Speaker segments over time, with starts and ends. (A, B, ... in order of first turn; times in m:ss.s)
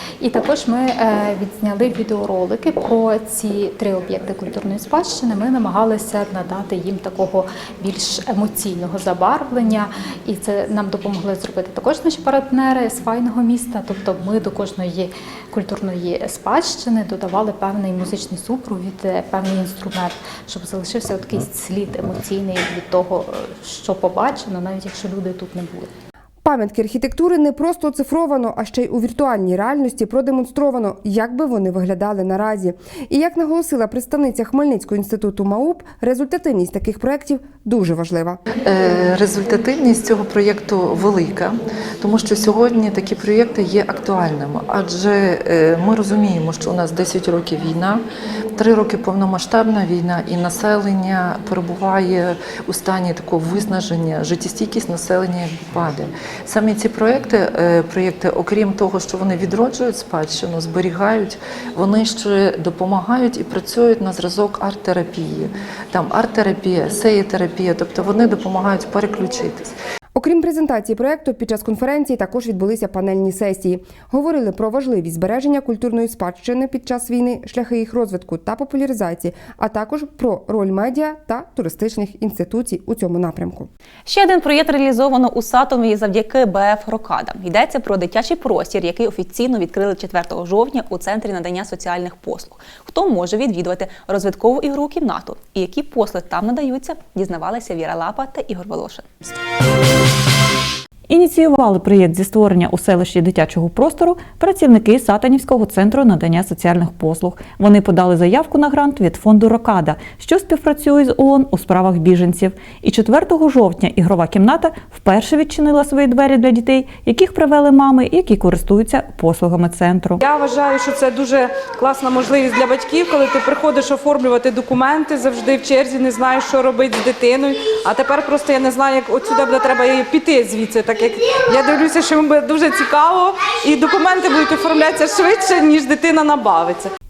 0:00.2-0:25.9 A
0:26.4-0:38.4 B
0:38.6-0:48.0 C
0:48.5-1:09.7 C
1:10.1-1:23.7 B
1:24.0-1:39.1 D
1:41.1-2:00.2 E
2:00.2-2:16.9 F